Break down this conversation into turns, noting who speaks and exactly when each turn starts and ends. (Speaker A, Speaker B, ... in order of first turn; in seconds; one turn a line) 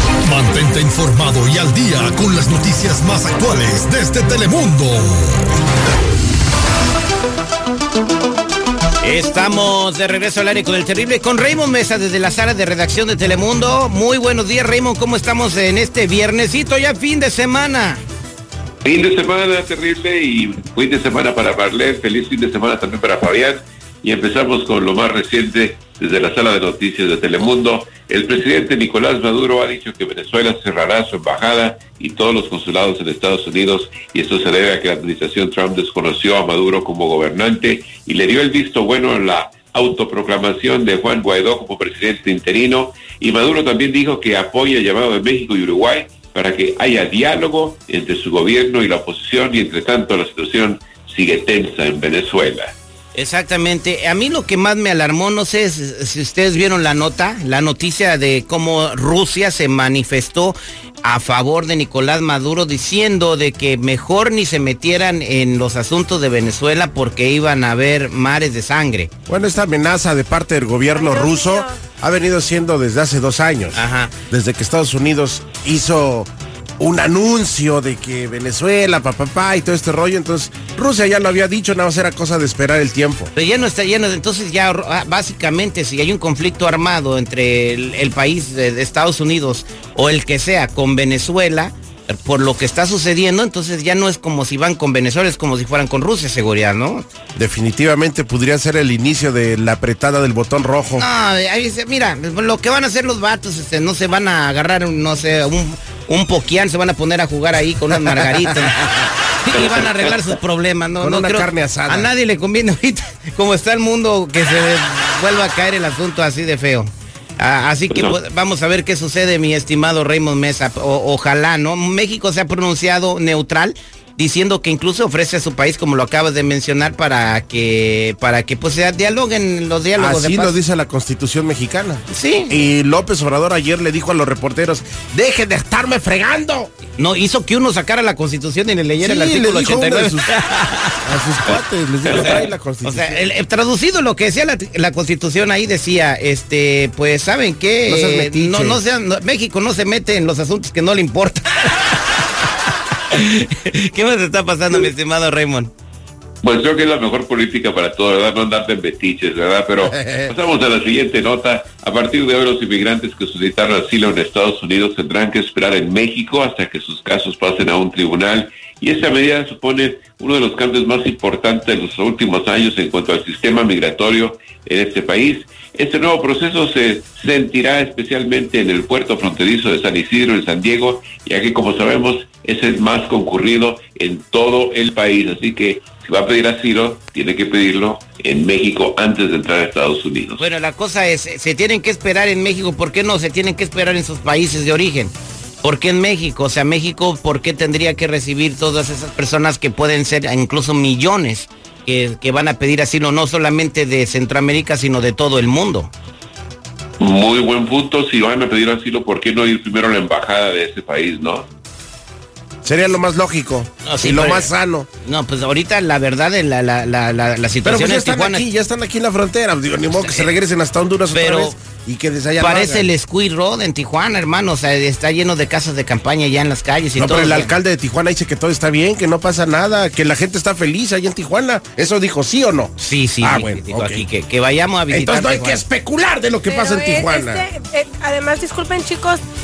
Speaker A: 0.2-5.4
Speaker B: 9.0-18.0
Speaker C: 18.8-52.7
Speaker B: 53.1-69.1
Speaker D: 69.3-83.3
Speaker E: 70.9-71.8
Speaker B: 73.7-74.1
Speaker B: 83.3-97.0
Speaker D: 97.3-101.0
Speaker B: 101.0-130.6
Speaker C: 109.5-110.1
Speaker D: 111.0-112.1
Speaker C: 117.9-118.1
Speaker D: 130.0-136.7
Speaker B: 132.1-132.7
Speaker B: 136.9-141.0
Speaker D: 139.0-140.3
Speaker D: 141.0-143.2
Speaker C: 142.1-142.3
Speaker B: 142.1-151.9
Speaker D: 147.8-148.8
Speaker B: 153.1-155.7
Speaker C: 156.4-190.4
Speaker D: 159.9-160.3
Speaker B: 190.4-205.9
Speaker C: 207.0-211.4
Speaker D: 212.6-214.9
Speaker B: 213.8-214.5
Speaker B: 215.0-218.4
Speaker D: 217.6-222.9
Speaker B: 219.9-220.3
Speaker B: 221.1-221.6
Speaker B: 222.4-227.5
Speaker D: 226.9-234.1
Speaker B: 232.8-235.6
Speaker D: 234.9-237.4
Speaker E: 236.5-239.2